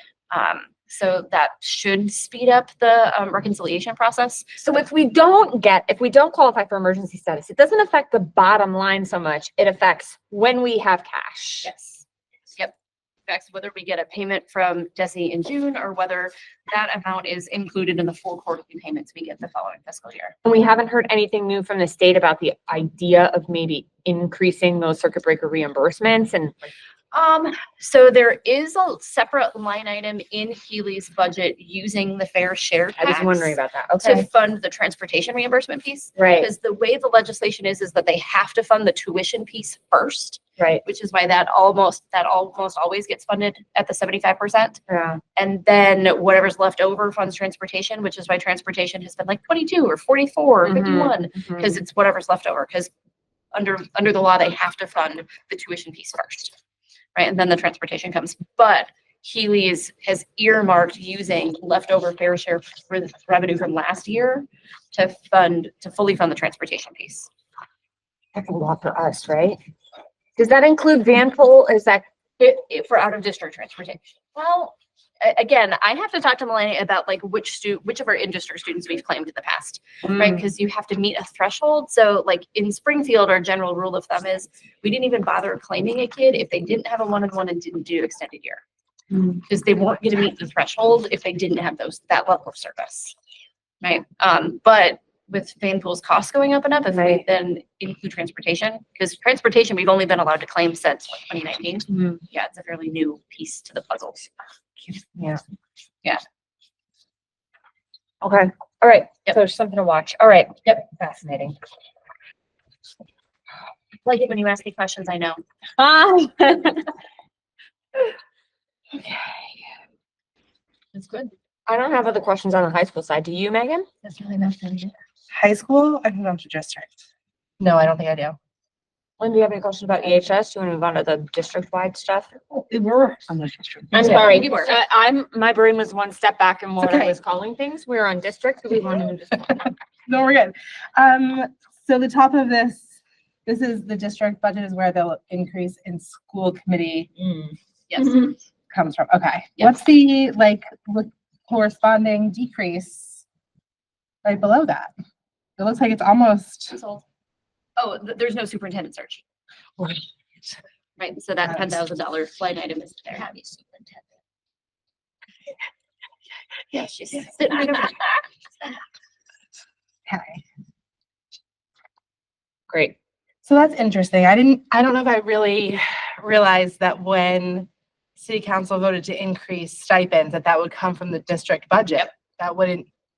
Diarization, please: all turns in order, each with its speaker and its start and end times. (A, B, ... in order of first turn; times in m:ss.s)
0:00.3-0:04.6 A
0:04.6-0:11.7 B
0:11.6-0:12.0 A
0:13.3-0:20.3 A
0:20.4-0:26.7 B
0:27.1-0:44.8 A
0:33.0-0:34.2 B
0:36.2-0:36.5 B
0:40.6-0:40.8 B
0:44.9-0:45.2 B
0:45.4-0:52.9 A
0:50.6-0:51.8 B
0:53.5-0:56.5 A
0:57.1-1:07.3 A
1:08.3-1:09.6 B
1:10.4-1:12.0 B
1:12.4-1:28.6 A
1:20.1-1:20.4 B
1:29.3-1:33.2 A
1:33.8-1:44.3 A
1:36.9-1:37.2 B
1:41.9-1:42.2 B
1:44.9-1:45.4 B
1:48.2-1:51.6 B
1:54.0-1:55.4 A
1:55.8-1:56.9 B
1:59.0-1:59.4 B
2:00.9-2:01.3 A
2:01.7-2:03.9 B
2:04.0-2:07.0 C
2:07.6-2:08.4 C
2:09.2-2:12.3 B
2:12.5-2:14.5 C
2:13.9-2:19.7 B
2:14.1-2:14.8 A
2:16.8-2:17.1 C
2:18.7-2:22.9 C
2:23.4-2:27.1 C
2:27.2-2:28.3 B
2:27.9-2:28.4 A
2:28.7-2:33.2 C
2:34.2-2:34.9 C
2:35.6-2:36.8 C
2:36.7-2:37.0 A
2:37.8-2:39.2 A
2:39.8-2:40.6 C
2:41.0-2:43.6 A
2:46.7-2:48.8 A
2:50.1-2:50.4 C
2:52.7-2:52.9 B
2:53.4-3:02.9 C